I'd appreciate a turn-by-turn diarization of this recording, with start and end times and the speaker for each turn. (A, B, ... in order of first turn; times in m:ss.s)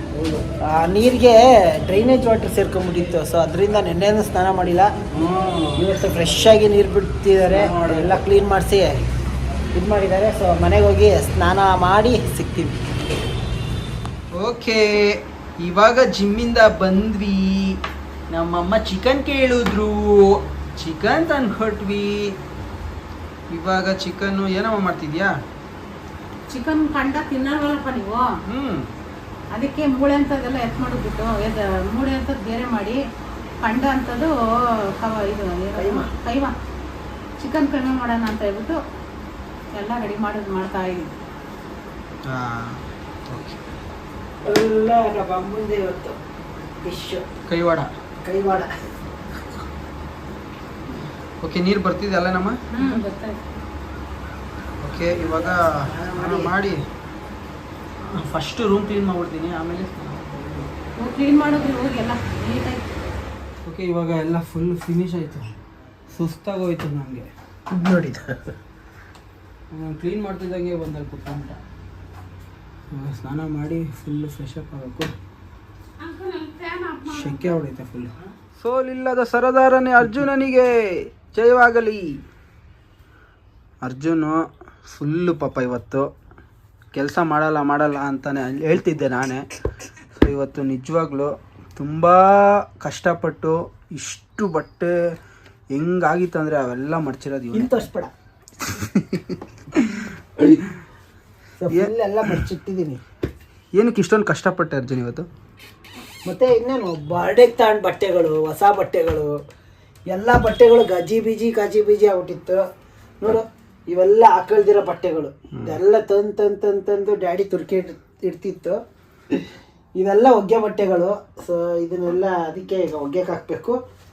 0:00.1-0:00.4 A
0:00.6-0:04.9 B
0:05.1-0:05.9 A
0:05.8-0:08.9 B
0:07.5-0:08.2 A
0:09.7-0:12.8 B
0:14.3-0:22.4 A
0:23.5-0:25.3 A
0:26.5-0:28.3 C
0:28.5-0:28.9 A
0:29.5-0:33.0 C
0:33.6-0:34.3 C
0:35.0-0:36.6 C
0:35.8-0:36.1 B
0:37.4-0:38.8 C
0:39.7-0:41.0 C
0:42.3-0:43.6 A
0:44.4-0:46.2 B
0:46.8-0:47.2 B
0:47.5-0:47.9 A
0:48.2-0:48.7 B
0:51.4-0:52.6 A
0:52.7-0:53.4 C
0:54.8-0:56.8 A
0:55.4-0:56.5 B
0:58.0-1:00.7 A
1:01.0-1:02.9 C
1:03.6-1:05.5 A
1:06.1-1:07.3 A
1:07.7-1:08.5 B
1:09.7-1:11.6 A
1:12.9-1:15.1 A
1:16.0-1:17.4 C
1:17.0-1:22.2 A
1:23.8-1:26.1 A
1:26.9-1:29.4 A
1:30.2-1:34.9 A
1:35.7-1:37.7 A
1:37.5-1:38.1 B
1:38.6-1:40.1 A
1:41.6-1:43.0 B
1:41.7-1:42.5 A
1:43.8-1:45.3 A
1:46.3-1:49.3 B
1:50.1-1:52.6 B
1:53.2-1:58.8 B
1:59.3-2:03.8 B